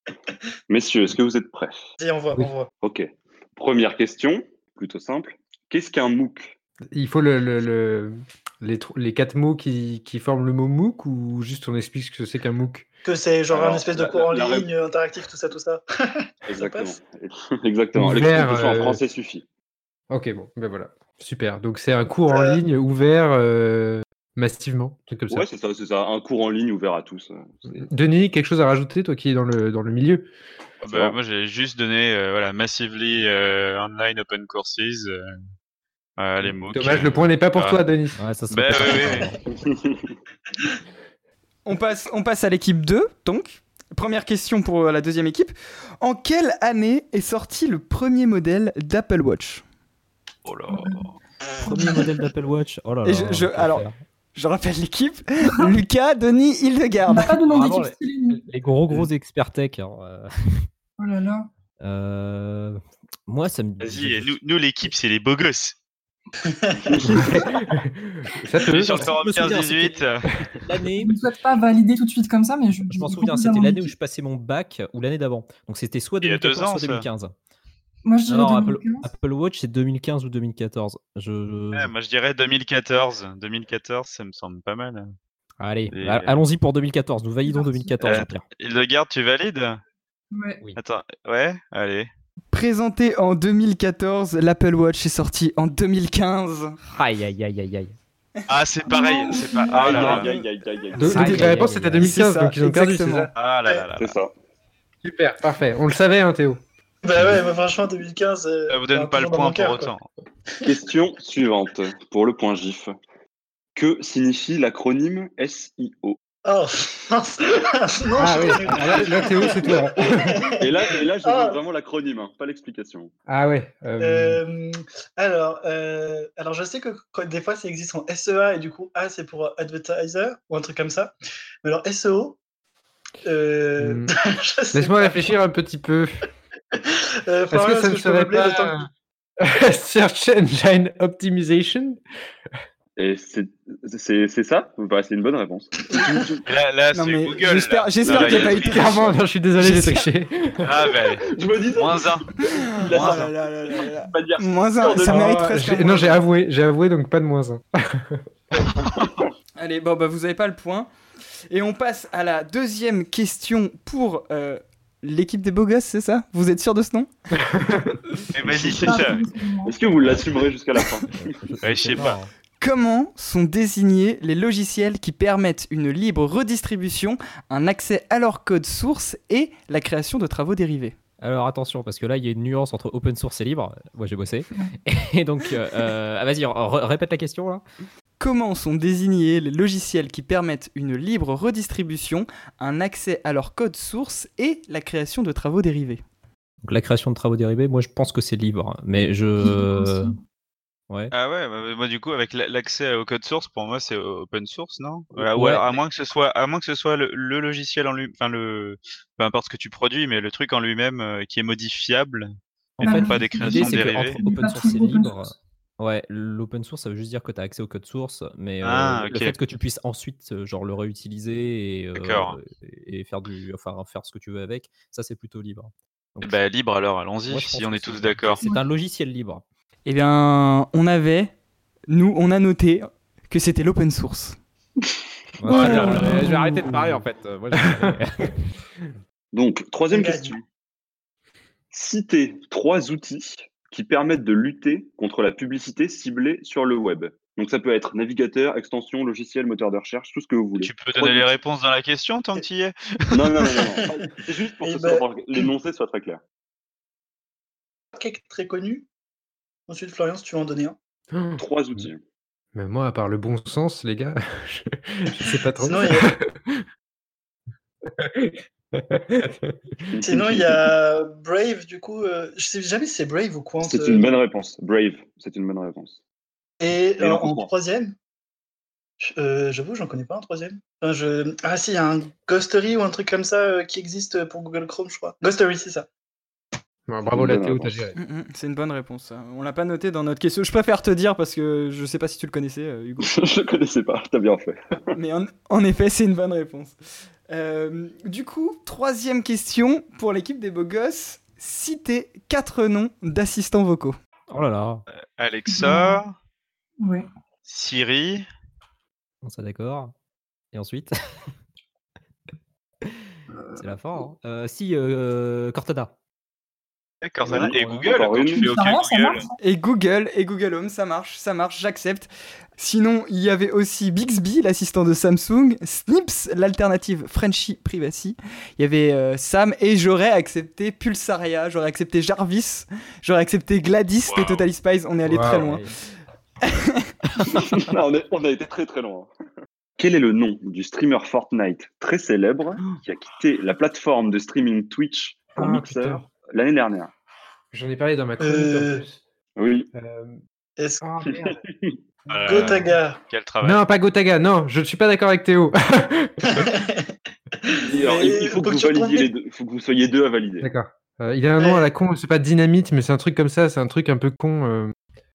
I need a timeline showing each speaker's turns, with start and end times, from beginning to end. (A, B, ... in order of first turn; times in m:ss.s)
0:00.7-0:01.9 A
0:02.0-0:02.7 B
0:02.8-0:06.6 A
0:06.9-0:12.9 C
0:13.0-0:17.0 B
0:13.5-0:14.7 A
0:16.5-0:19.4 A
0:18.0-0:19.0 C
0:20.1-0:25.5 C
0:22.3-0:22.6 B
0:25.3-0:27.9 A
0:27.7-0:30.3 C
0:30.8-0:35.3 D
0:30.9-0:31.2 A
0:36.2-0:37.8 D
0:36.7-0:38.2 C
0:38.2-0:39.4 E
0:38.5-0:39.3 D
0:39.5-0:40.1 A
0:41.7-0:49.6 F
0:50.4-0:51.1 D
0:50.7-0:51.0 G
0:51.6-0:54.0 E
0:51.6-0:52.1 G
0:53.0-0:57.4 F
0:57.1-0:58.4 G
0:57.5-1:00.7 E
1:01.0-1:01.5 G
1:01.8-1:04.4 E
1:03.8-1:05.8 D
1:06.5-1:07.4 B
1:06.9-1:07.3 A
1:07.1-1:09.1 C
1:08.7-1:10.2 D
1:08.8-1:10.0 E
1:10.6-1:11.2 E
1:11.0-1:14.0 G
1:12.9-1:17.3 E
1:16.2-1:17.1 D
1:18.0-1:19.1 G
1:18.3-1:21.9 E
1:21.7-1:25.1 D
1:25.6-1:28.4 E
1:25.9-1:26.4 D
1:27.5-1:28.2 G
1:28.0-1:29.8 D
1:30.3-1:30.6 G
1:30.8-1:32.1 D
1:32.5-1:36.8 F
1:36.9-1:38.0 E
1:38.5-1:40.3 D
1:38.9-1:40.0 G
1:38.9-1:39.4 F
1:39.8-1:41.5 A
1:40.0-1:40.5 F
1:41.0-1:43.3 C
1:41.0-1:42.2 E
1:41.2-1:43.3 F
1:43.4-1:44.2 D
1:44.0-1:44.3 A
1:45.0-1:46.6 C
1:47.0-1:49.9 B
1:48.7-1:50.1 D
1:50.7-1:52.9 A
1:53.8-1:56.2 A
1:56.4-2:01.6 B
1:58.2-2:00.5 C
2:00.6-2:03.1 A
2:03.3-2:04.4 C
2:04.0-2:11.1 B
2:11.6-2:12.4 B
2:13.2-2:15.3 B
2:13.8-2:14.1 C
2:14.7-2:16.2 C
2:16.7-2:18.8 B
2:17.5-2:18.9 C
2:19.4-2:22.0 C
2:23.0-2:26.4 A
2:25.9-2:26.3 B
2:26.5-2:29.0 D
2:26.9-2:29.0 F
2:28.1-2:28.4 A
2:28.4-2:30.8 C
2:29.6-2:30.0 F
2:30.6-2:32.3 D
2:31.2-2:35.4 A
2:32.4-2:36.2 F
2:32.9-2:33.3 D
2:35.1-2:38.3 C
2:38.8-2:39.3 A
2:39.6-2:40.9 F
2:41.5-2:47.1 F
2:47.4-2:48.0 C
2:48.3-2:49.2 D
2:48.5-2:50.2 G
2:49.7-2:51.2 A
2:51.1-2:52.3 E
2:51.6-2:52.2 D
2:52.6-3:01.0 F
3:01.2-3:07.6 E
3:08.2-3:16.0 F
3:16.6-3:20.2 E
3:19.4-3:20.2 G
3:21.1-3:32.3 D
3:25.2-3:25.6 E
3:32.8-3:46.4 E
3:32.8-3:34.2 D
3:32.8-3:35.3 G
3:38.6-3:39.4 D
3:42.0-3:42.4 D
3:46.2-3:48.4 D
3:47.3-3:49.4 E
3:49.9-3:51.3 F
3:51.9-3:54.4 F
3:55.4-3:58.4 E
3:55.6-3:57.0 C
3:55.8-3:56.2 B
3:57.5-3:58.0 C
3:59.3-4:00.4 A
3:59.9-4:00.3 B
4:01.7-4:11.3 A
4:10.6-4:12.7 D
4:13.1-4:16.2 A
4:13.4-4:13.9 B
4:14.6-4:15.5 B
4:18.0-4:18.9 B
4:19.7-4:20.8 B
4:21.1-4:21.9 C
4:21.4-4:22.0 A
4:22.5-4:26.6 C
4:25.6-4:26.1 B
4:27.9-4:29.6 C
4:29.9-4:30.4 A
4:30.0-4:34.2 B
4:33.6-4:36.0 A
4:36.6-4:37.9 B
4:37.0-4:37.5 A
4:39.0-4:45.9 B
4:46.9-4:48.0 C
4:47.1-4:47.9 A
4:48.0-4:53.1 F
4:53.0-4:54.8 A
4:54.9-4:56.8 F
4:57.3-5:04.0 F
5:04.3-5:04.8 E
5:05.2-5:06.2 D
5:05.5-5:06.0 G
5:06.8-5:07.1 G
5:07.5-5:08.3 D
5:09.2-5:09.9 E
5:10.5-5:10.9 E
5:13.6-5:15.9 E
5:17.0-5:19.3 D
5:17.2-5:18.4 A
5:17.3-5:17.9 E
5:18.3-5:19.4 G
5:19.4-5:35.6 F
5:34.1-5:34.5 D
5:35.0-5:35.4 C
5:35.2-5:35.7 E
5:36.5-5:36.8 F
5:37.3-5:39.1 A
5:39.8-5:46.9 A
5:45.4-5:46.1 C
5:47.5-5:49.0 C
5:48.2-5:48.8 B
5:49.4-5:49.7 A
5:49.7-5:50.2 C
5:50.6-5:50.8 B
5:50.8-5:51.4 C
5:51.2-5:51.8 A
5:52.1-5:53.6 D
5:52.2-5:53.0 B
5:53.4-5:56.5 C
5:56.3-5:56.9 B
5:57.4-5:59.1 B
5:57.7-6:00.5 A
6:00.4-6:04.7 C
6:01.4-6:01.6 B